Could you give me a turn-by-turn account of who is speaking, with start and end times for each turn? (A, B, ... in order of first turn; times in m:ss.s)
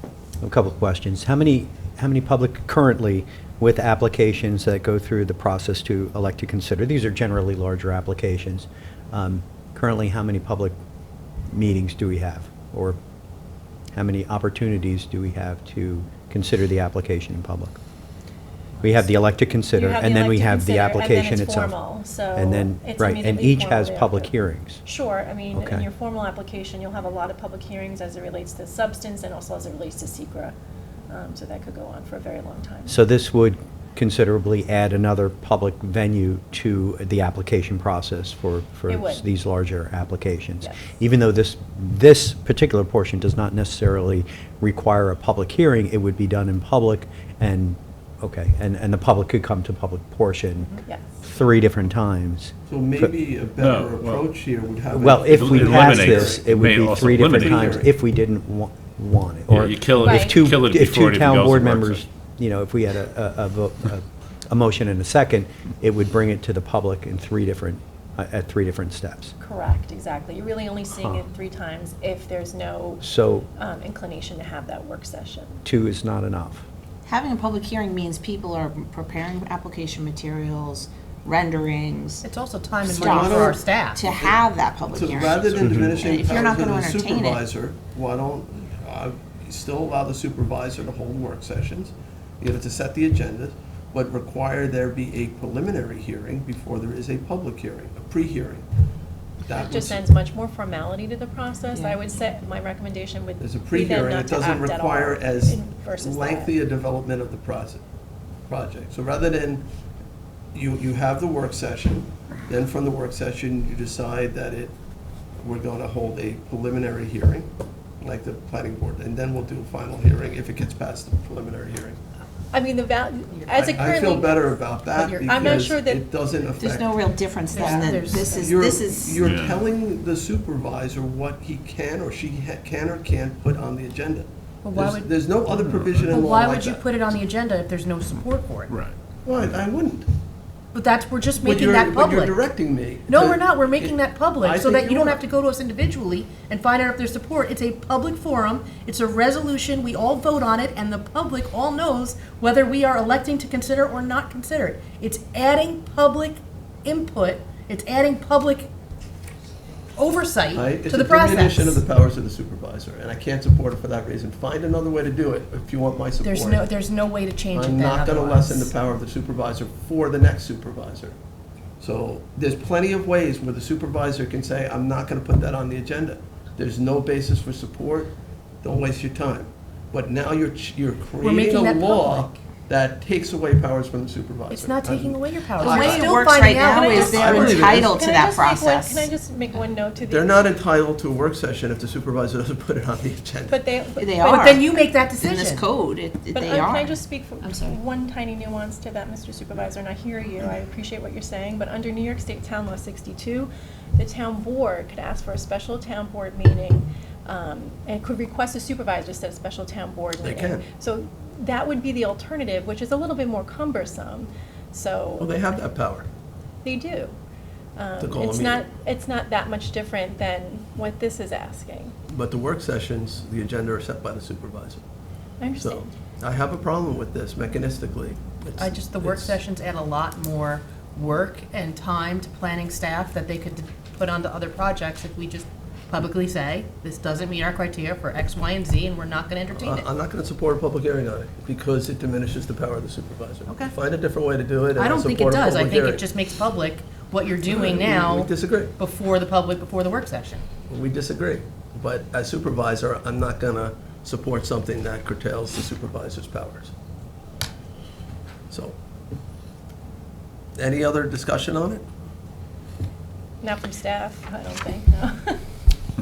0:00.4-0:10.8 A
0:11.5-0:13.0 A
0:13.9-0:17.8 A
0:18.8-0:21.8 A
0:19.7-0:30.5 B
0:22.3-0:24.8 A
0:25.5-0:25.8 A
0:31.1-0:33.0 B
0:32.9-0:53.1 A
0:38.9-0:39.2 B
0:40.6-0:40.9 B
0:52.7-0:56.4 C
0:53.6-0:54.3 D
0:54.9-1:09.3 A
0:55.2-0:57.8 D
0:57.0-0:57.9 C
0:59.5-1:02.0 D
1:00.0-1:00.4 B
1:09.4-1:13.0 B
1:13.0-1:13.5 A
1:13.6-1:15.6 B
1:15.6-1:16.6 A
1:17.0-1:22.2 E
1:22.2-1:24.0 F
1:22.8-1:27.4 E
1:22.8-1:38.6 C
1:39.4-1:40.0 C
1:39.6-1:46.5 B
1:43.4-1:47.8 C
1:48.5-1:49.6 C
1:50.5-1:54.7 C
1:55.4-1:57.5 C
1:58.0-2:02.0 C
2:02.5-2:04.6 B
2:03.5-2:07.0 C
2:04.9-2:05.7 F
2:05.1-2:06.0 B
2:06.6-2:09.2 E
2:07.5-2:08.6 F
2:07.6-2:16.8 C
2:09.2-2:09.6 D
2:14.6-2:18.7 F
2:15.7-2:16.2 D
2:18.7-2:18.9 D
2:19.2-2:20.1 C
2:20.7-2:22.4 F
2:21.4-2:25.2 C
2:23.1-2:38.7 F
2:40.0-2:41.8 F
2:40.5-2:46.6 C
2:46.2-2:48.7 F
2:47.5-2:51.2 C
2:51.8-3:07.9 C
3:01.2-3:02.3 F
3:04.5-3:06.9 F
3:05.6-3:09.1 E
3:06.7-3:10.4 B
3:10.0-3:13.6 C
3:13.5-3:14.6 B
3:14.0-3:14.6 E
3:14.2-3:15.6 F
3:15.2-3:17.8 E
3:16.3-3:35.5 B
3:30.2-3:30.6 C
3:35.2-3:36.1 C
3:36.6-3:37.2 B
3:37.8-3:41.9 B
3:38.0-3:38.6 C
3:42.1-3:44.8 C
3:45.4-3:45.9 B
3:45.6-3:49.4 C
3:48.6-3:59.8 F
3:59.5-4:06.0 C
4:03.4-4:03.7 F
4:04.7-4:10.4 F
4:07.4-4:08.7 C
4:10.7-4:16.7 C
4:18.5-4:18.7 C
4:20.6-4:21.8 C
4:23.4-4:25.4 B